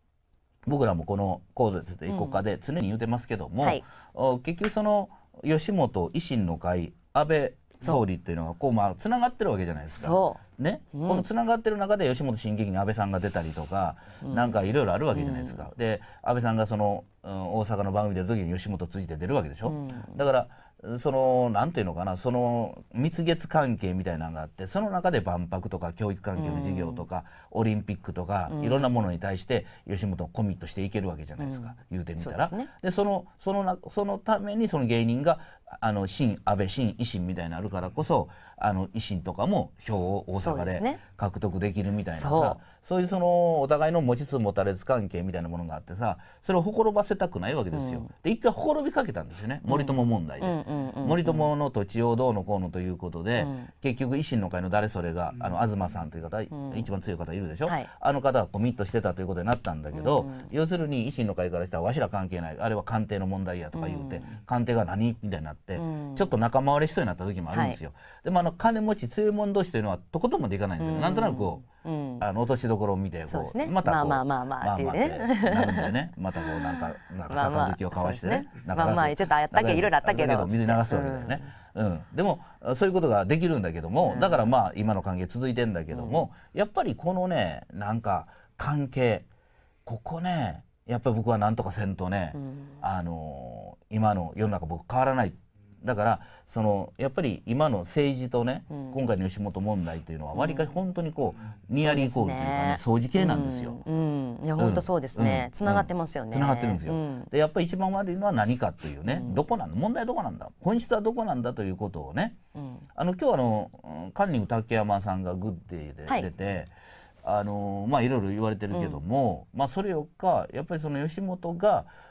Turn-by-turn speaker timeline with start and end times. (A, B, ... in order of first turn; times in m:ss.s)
0:00.7-1:11.6 A
0:02.1-0:02.4 B
0:09.9-0:10.4 B
0:11.0-0:11.3 B
0:14.2-0:14.5 B
0:15.1-0:15.6 B
0:19.7-0:20.2 B
0:26.4-0:27.0 B
0:28.5-0:28.9 B
0:31.4-0:32.7 B
0:40.3-0:41.0 B
0:42.1-0:42.6 B
0:47.7-0:48.1 B
0:49.7-0:51.5 B
0:53.4-0:53.7 B
0:56.5-0:56.9 B
0:59.9-1:00.5 B
1:03.7-1:04.3 B
1:05.8-1:06.3 B
1:07.5-1:07.8 B
1:10.8-1:12.3 B
1:12.2-1:29.3 A
1:13.3-1:21.5 B
1:24.1-1:24.4 B
1:25.9-1:26.2 B
1:29.9-1:43.8 A
1:32.4-1:32.8 B
1:38.7-1:39.0 B
1:40.3-1:40.8 B
1:41.7-1:47.3 B
1:44.6-1:52.4 A
1:49.1-1:49.4 B
1:52.6-1:52.8 B
1:53.0-1:56.7 A
1:57.2-2:01.9 A
1:58.7-1:59.0 B